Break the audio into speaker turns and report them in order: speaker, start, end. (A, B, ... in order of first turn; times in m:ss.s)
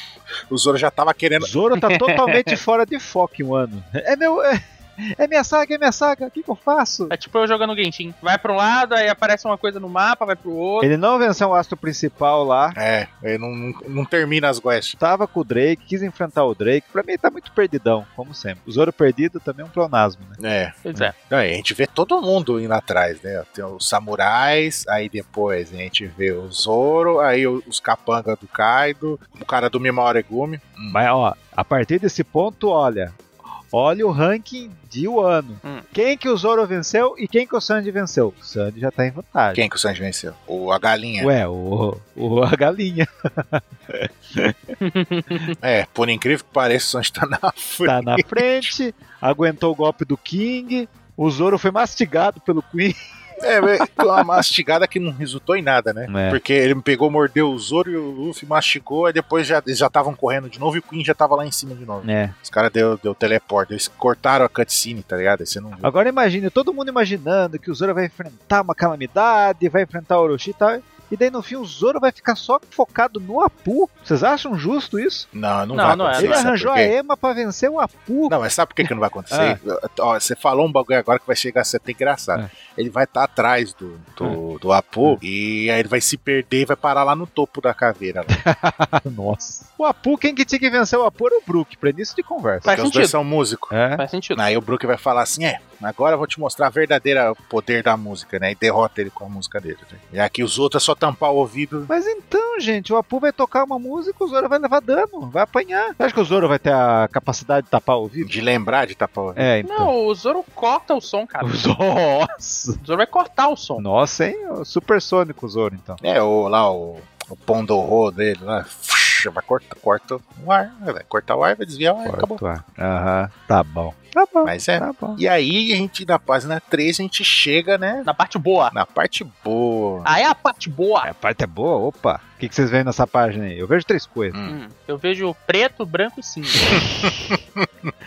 0:00.5-0:01.5 A
0:01.4-0:07.1 B
0:01.8-0:02.6 C
0:07.1-0:10.9 C
0:10.8-0:12.8 B
0:12.7-0:15.0 A
0:15.0-0:20.4 B
0:20.4-0:31.0 A
0:20.8-0:21.1 C
0:30.9-0:33.2 B
0:33.7-0:39.6 B
0:39.5-0:41.3 A
0:41.2-0:44.7 B
0:44.8-0:45.5 C
0:45.6-0:48.7 A
0:47.8-0:53.4 B
0:53.4-1:05.9 A
0:56.1-0:56.4 B
1:02.0-1:02.3 B
1:05.8-1:15.3 B
1:15.3-1:16.9 A
1:15.7-1:16.5 C
1:16.1-1:18.4 B
1:18.3-1:28.4 A
1:19.3-1:19.6 B
1:28.3-1:32.7 B
1:32.6-1:33.1 C
1:32.7-1:33.7 A
1:33.7-1:34.0 B
1:34.0-1:34.4 C
1:34.3-1:41.9 A
1:41.9-1:48.3 B
1:48.2-1:49.5 A
1:49.4-1:49.9 B
1:49.6-1:51.6 C
1:51.4-1:52.8 B
1:52.8-1:53.8 C
1:53.8-1:56.0 B
1:56.0-2:02.4 A
2:02.0-2:05.2 B
2:04.4-2:08.1 A
2:08.0-2:08.7 C
2:08.7-2:10.1 A
2:10.0-2:11.1 C
2:11.0-2:14.4 B
2:14.3-2:14.6 A
2:14.5-2:16.8 C
2:16.6-2:17.4 B
2:17.3-2:17.9 A